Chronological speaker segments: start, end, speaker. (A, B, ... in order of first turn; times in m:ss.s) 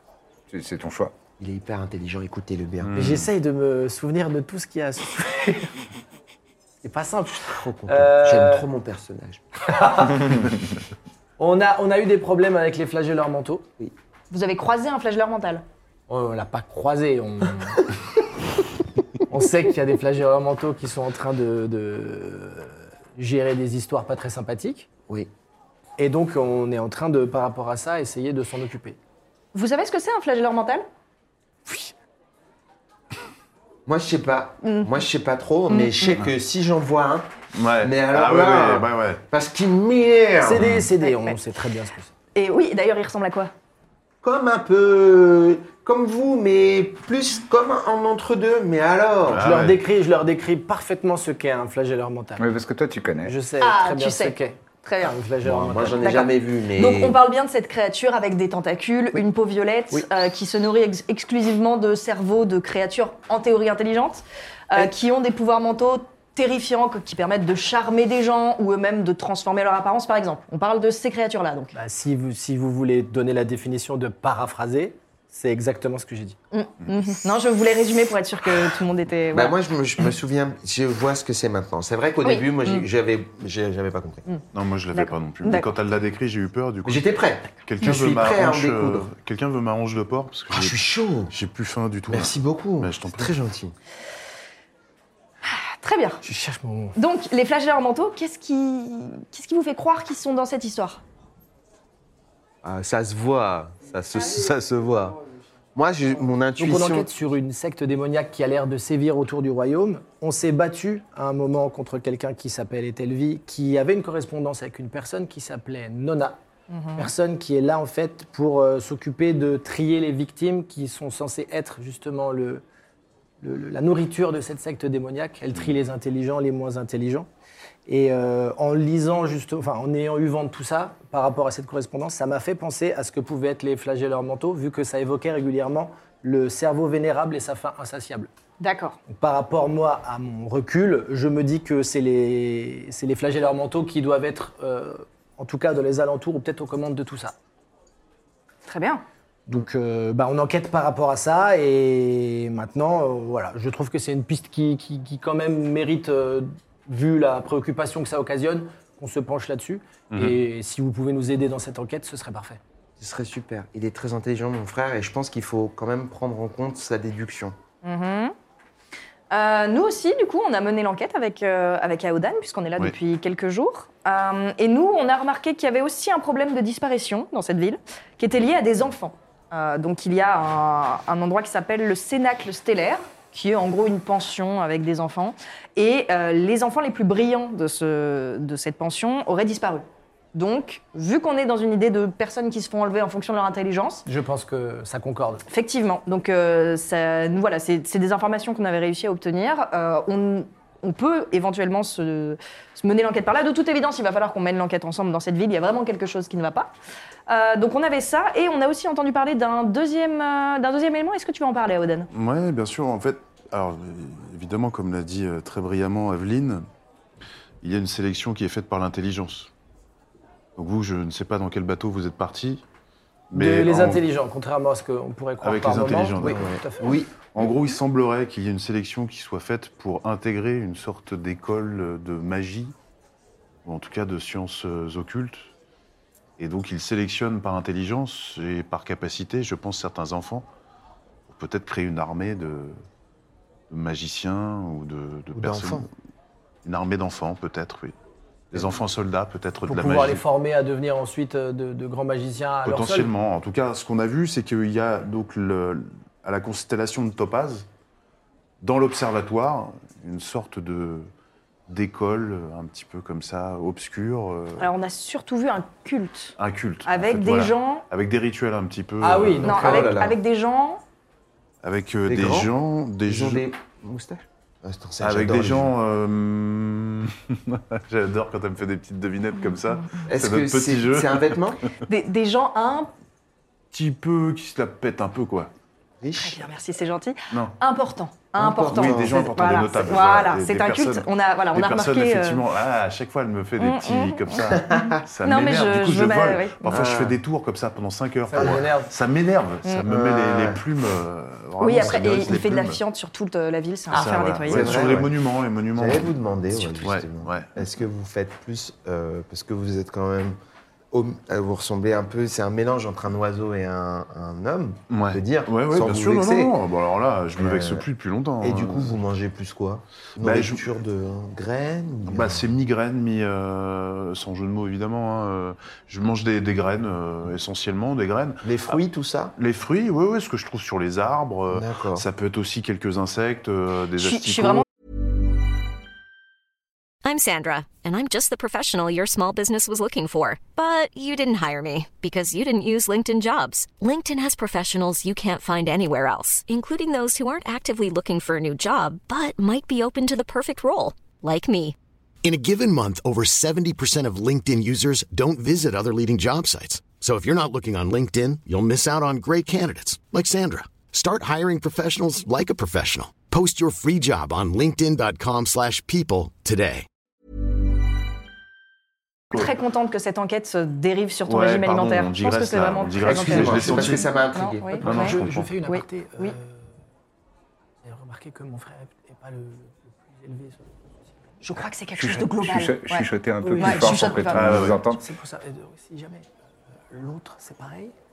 0:00.5-0:01.2 A
0:01.4-0:02.9 B
0:02.8-0:03.3 C
0:03.0-0:05.7 D
0:06.8-0:08.7 D
0:07.4-0:09.9 B
0:09.7-0:10.3 D
0:11.4-0:13.7 D
0:14.3-0:15.6 E
0:16.1-0:17.8 D
0:19.3-0:24.9 D
0:26.0-0:29.0 D
0:29.5-0:30.8 E
0:33.9-0:37.3 B
0:34.6-0:34.9 E
0:35.7-0:36.2 E
0:37.6-0:39.2 C
0:37.8-0:40.7 B
0:40.4-0:42.1 D
0:40.6-0:40.9 C
0:41.0-0:41.4 E
0:42.4-0:43.5 E
0:44.2-0:49.4 B
0:49.3-0:49.8 C
0:49.4-0:52.5 D
0:52.4-0:53.4 A
0:53.2-0:56.1 D
0:53.6-0:55.2 E
0:55.4-0:57.2 B
0:56.0-1:11.7 E
1:11.7-1:16.4 D
1:16.5-1:19.6 E
1:19.3-1:24.3 B
1:22.2-1:22.8 E
1:24.3-1:25.7 E
1:24.5-1:30.8 C
1:26.8-1:29.1 B
1:30.5-1:31.3 B
1:31.3-1:33.4 C
1:32.1-1:33.8 B
1:35.4-1:36.2 E
1:36.2-1:37.0 D
1:37.0-1:41.0 E
1:42.6-1:45.2 B
1:45.8-1:47.1 B
1:46.6-1:56.4 D
1:56.7-1:57.1 E
1:57.0-2:02.6 D
2:03.4-2:07.3 D
2:07.9-2:18.3 D
2:18.6-2:19.0 E
2:19.1-2:27.4 D
2:28.7-2:29.0 E
2:29.5-2:42.6 D
2:40.1-2:40.4 C
2:43.0-2:47.6 B
2:47.8-2:48.3 E
2:49.3-3:14.0 E
3:14.1-3:15.4 D
3:15.5-3:26.7 E
3:27.3-3:32.1 E
3:32.1-3:36.6 C
3:37.6-3:39.5 C
3:40.6-3:42.6 C
3:43.3-3:44.0 C
3:43.3-3:47.0 D
3:45.4-3:46.6 C
3:46.2-3:47.1 B
3:47.2-3:52.8 C
3:53.6-3:55.5 C
3:56.4-4:00.5 C
4:01.3-4:02.8 C
4:03.7-4:05.9 C
4:05.4-4:05.9 B
4:06.6-4:08.0 C
4:08.5-4:10.2 C
4:09.6-4:13.1 D
4:12.6-4:17.7 C
4:18.6-4:21.1 C
4:21.7-4:24.7 C
4:24.6-4:27.9 E
4:26.4-4:29.8 C
4:29.0-4:29.8 D
4:29.4-4:30.8 E
4:29.4-4:30.2 B
4:31.6-4:33.4 C
4:32.1-4:32.5 B
4:33.0-4:35.7 B
4:35.0-4:41.4 C
4:39.4-4:40.0 E
4:40.1-4:41.6 B
4:41.9-4:42.9 E
4:43.7-4:45.5 C
4:46.0-4:46.5 B
4:46.2-4:52.4 E
4:48.4-4:49.7 B
4:48.7-5:02.8 C
4:53.6-4:56.8 E
4:54.5-4:55.0 B
4:56.7-4:57.2 B
4:58.3-4:58.9 D
4:59.9-5:00.6 B
5:01.6-5:04.8 E
5:03.9-5:07.6 C
5:04.4-5:05.2 B
5:05.8-5:10.4 B
5:10.9-5:16.6 B
5:14.9-5:19.0 C
5:17.4-5:17.8 B
5:18.4-5:22.5 B
5:20.2-5:20.7 C
5:22.1-5:28.8 C
5:28.4-5:29.4 B
5:29.4-5:34.6 C
5:31.5-5:32.0 B
5:34.0-5:34.6 E
5:37.0-5:51.8 F
5:52.2-6:06.9 G
6:09.3-6:16.4 E
6:11.3-6:14.2 C
6:13.0-6:14.8 B
6:14.8-6:16.7 D
6:14.8-6:15.6 C
6:17.8-6:20.6 D
6:21.4-6:24.6 E
6:22.0-6:25.0 A
6:23.4-6:24.2 D
6:24.3-6:24.8 C
6:24.8-6:26.3 D
6:26.9-6:27.9 D